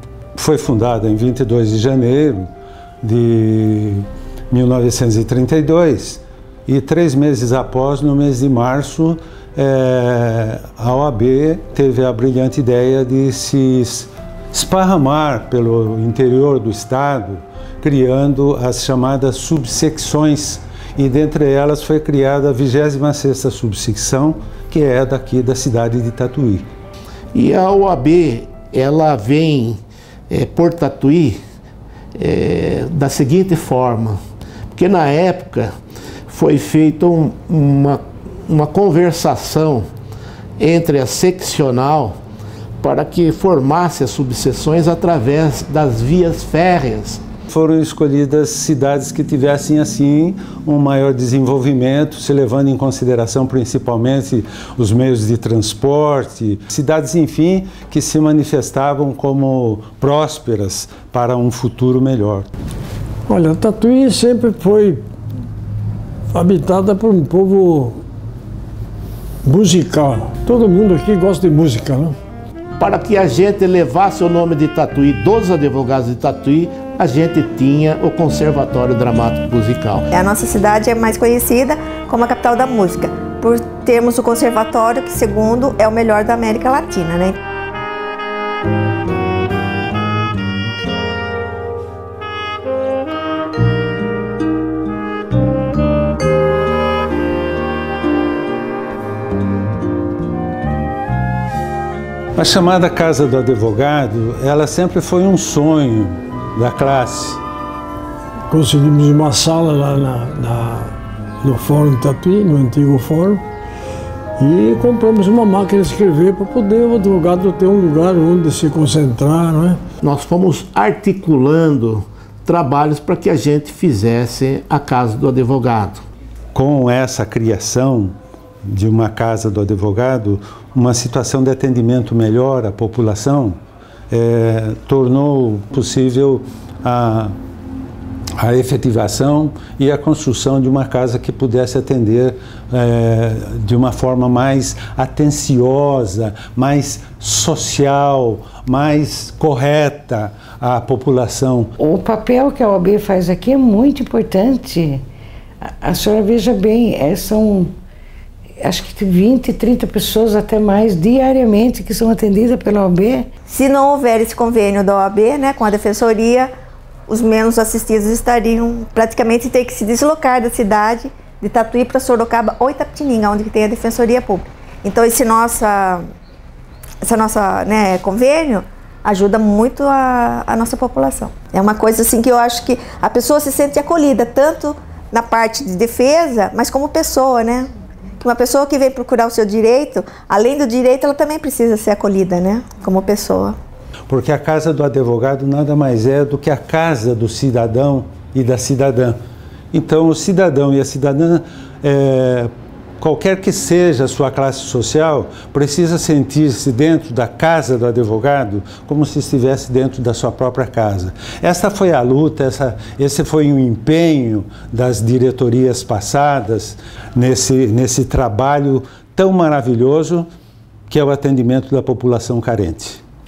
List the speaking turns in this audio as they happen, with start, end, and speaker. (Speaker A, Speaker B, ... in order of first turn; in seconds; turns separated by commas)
Speaker A: 0.4-2.5, Speaker A: 3.0-26.7, Speaker B: 27.3-31.4, Speaker B: 32.1-34.2, Speaker B: 34.7-35.7, Speaker B: 36.3-39.9, Speaker B: 40.6-42.2, Speaker B: 42.8-47.2, Speaker A: 47.5-62.5, Speaker C: 63.3-65.0, Speaker C: 66.3-68.0, Speaker C: 69.4-72.2, Speaker B: 72.8-80.1, Speaker D: 80.1-87.4, Speaker A: 102.4-107.4, Speaker C: 108.5-113.4, Speaker C: 114.4-119.8, Speaker B: 120.0-126.0, Speaker A: 126.5-128.1, Speaker A: 128.7-133.6, Speaker A: 134.1-137.3, Speaker A: 138.4-151.7, Speaker E: 151.8-155.0, Speaker E: 155.8-157.7, Speaker E: 158.6-163.3, Speaker D: 163.5-166.5, Speaker D: 167.1-176.0, Speaker D: 177.0-187.7, Speaker D: 188.2-193.6, Speaker A: 194.1-199.2, Speaker A: 199.7-220.3, Speaker A: 220.9-223.0